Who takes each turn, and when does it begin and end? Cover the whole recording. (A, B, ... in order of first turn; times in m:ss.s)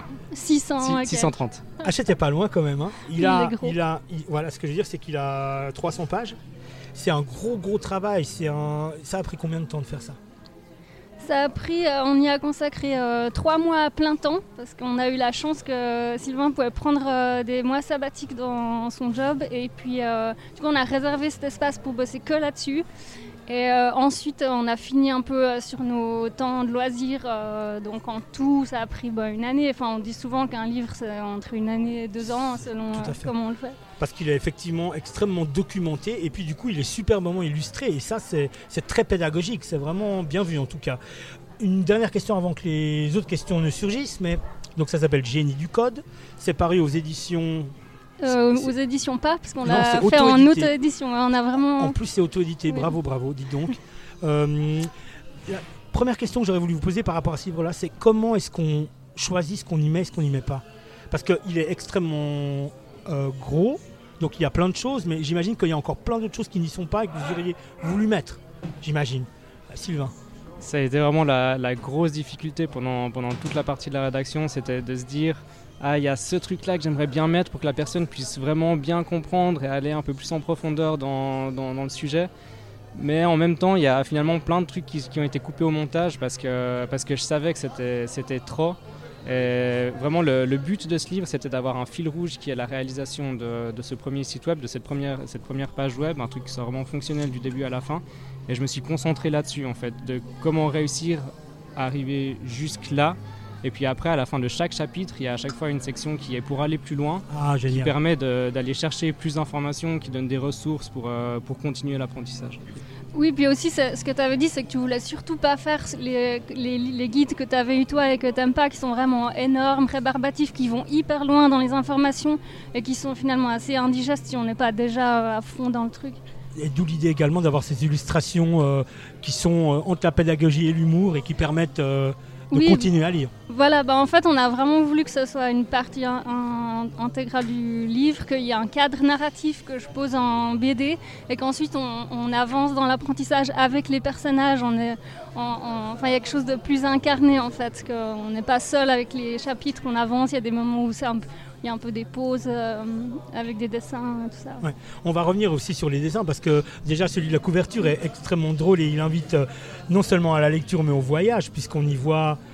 0:00.3-0:01.4 A
0:00.8-0:01.6 B
0:01.8-0:06.4 C
0:03.1-0:03.8 A
0:06.9-0:10.2 C
0:11.2-0:22.8 A
0:23.5-0:33.8 A
0:32.9-0:33.3 C
0:34.0-0:41.0 C
0:41.6-0:47.7 C
0:48.2-0:52.0 A
0:48.3-0:48.7 C
0:49.6-0:50.7 C
0:51.8-0:54.9 C
0:55.4-1:10.1 C
1:10.6-1:22.3 B
1:22.9-1:52.6 B
1:47.3-1:47.9 C
1:53.1-2:06.2 A
2:06.5-2:13.3 C
2:12.5-2:12.9 A
2:13.5-2:34.6 A
2:34.6-2:42.4 C